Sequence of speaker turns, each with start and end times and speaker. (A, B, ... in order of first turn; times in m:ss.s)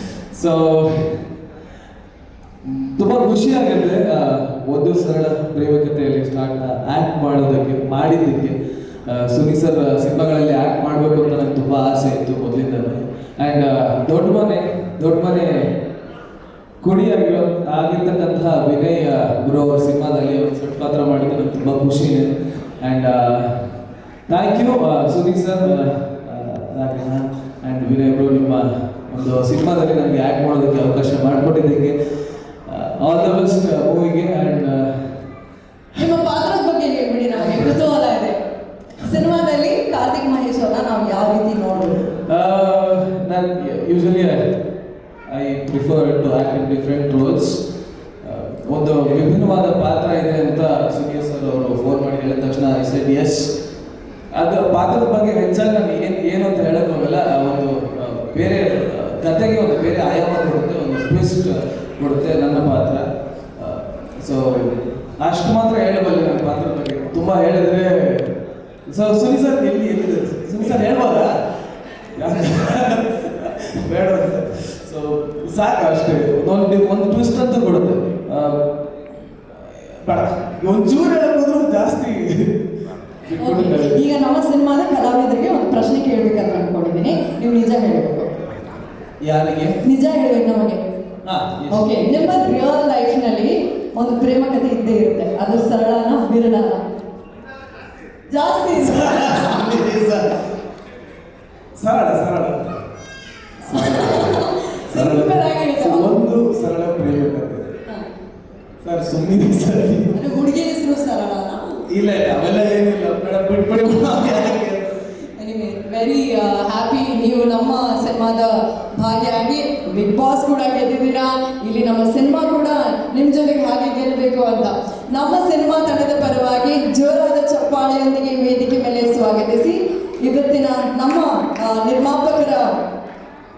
0:00.3-0:01.2 A
0:02.7-0:15.7 A
0:16.8-0:23.6 A
0:24.3-0:32.0 A
0:32.6-0:35.0 A
0:36.0-0:38.4 B
0:39.0-0:42.1 B
0:42.3-0:44.5 A
0:45.3-0:47.6 A
0:48.2-0:53.5 A
0:54.3-1:08.3 A
1:08.9-1:11.4 A
1:12.2-1:18.6 A
1:19.9-1:22.6 A
1:23.2-1:24.0 A
1:23.4-1:28.3 B
1:29.2-1:29.8 A
1:29.8-1:30.8 B
1:31.2-1:32.4 A
1:31.7-1:36.8 B
1:38.3-1:39.8 B
1:38.8-1:40.4 A
1:41.8-1:42.6 A
1:43.6-1:47.7 A
1:43.7-1:46.2 B
1:48.8-1:50.2 A
1:50.1-1:51.8 B
1:51.9-1:54.9 A
1:55.4-2:12.7 B